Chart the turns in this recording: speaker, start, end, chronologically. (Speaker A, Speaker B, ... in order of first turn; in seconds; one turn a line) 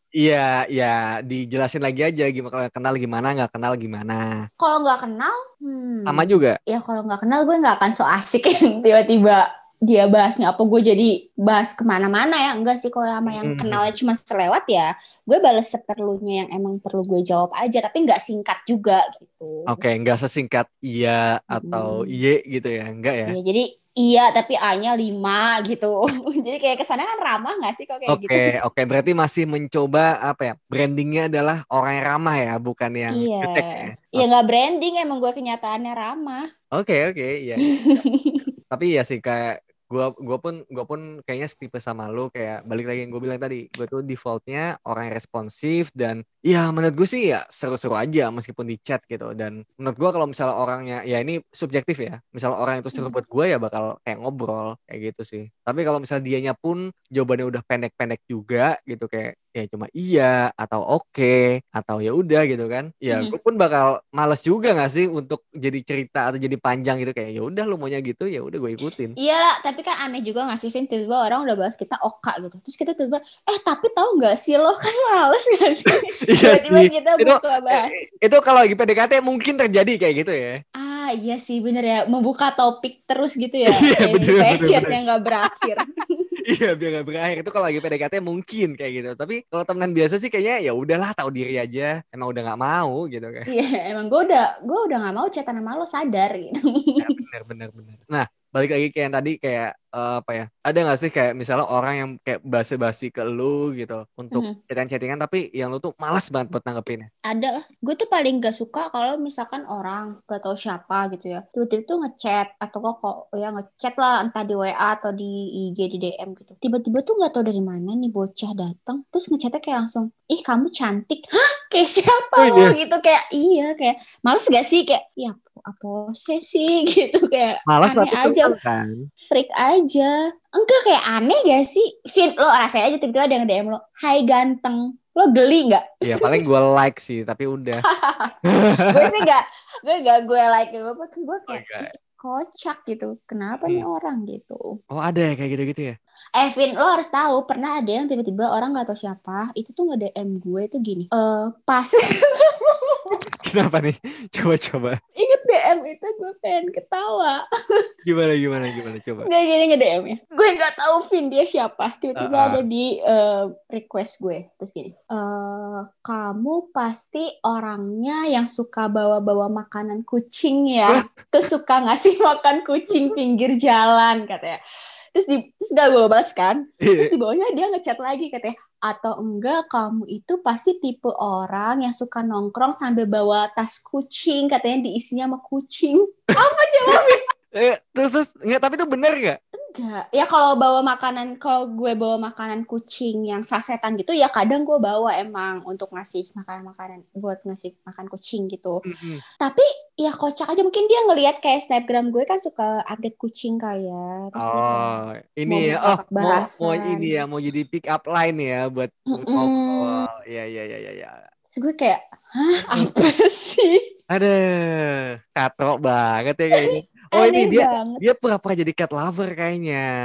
Speaker A: 0.2-4.4
Speaker B: 4.6-19.8
Speaker A: 6.1-6.6
Speaker A: 13.3-13.8
Speaker A: 19.7-23.4
Speaker B: 21.5-22.1
Speaker B: 23.3-28.5
Speaker A: 28.1-34.2
Speaker B: 33.1-36.5
Speaker A: 36.7-38.0
Speaker B: 37.6-38.5
Speaker A: 38.7-69.1
Speaker B: 63.1-63.4
Speaker B: 69.2-78.0
Speaker A: 75.9-80.6
Speaker B: 80.8-86.3
Speaker A: 83.7-85.0
Speaker A: 86.5-93.5
Speaker B: 93.5-97.0
Speaker A: 97.0-107.1
Speaker B: 104.3-104.6
Speaker B: 107.3-128.5
Speaker A: 122.4-122.8
Speaker A: 127.7-129.1
Speaker B: 129.3-136.4
Speaker A: 136.1-137.8
Speaker B: 137.8-138.3
Speaker A: 138.5-139.2
Speaker B: 138.9-144.6
Speaker A: 141.5-141.9
Speaker A: 144.9-146.0
Speaker B: 146.4-153.2
Speaker A: 153.2-155.0
Speaker B: 155.2-157.4
Speaker A: 158.1-159.3
Speaker B: 159.2-174.6
Speaker A: 162.2-162.6
Speaker A: 172.9-173.2
Speaker B: 175.1-187.2
Speaker A: 176.8-177.1
Speaker A: 186.4-189.4
Speaker B: 189.7-198.8
Speaker A: 198.8-199.2
Speaker B: 199.4-204.9
Speaker A: 204.4-211.2
Speaker B: 205.5-207.1
Speaker B: 209.1-210.1
Speaker B: 211.5-213.8
Speaker A: 214.1-219.9
Speaker B: 216.6-218.1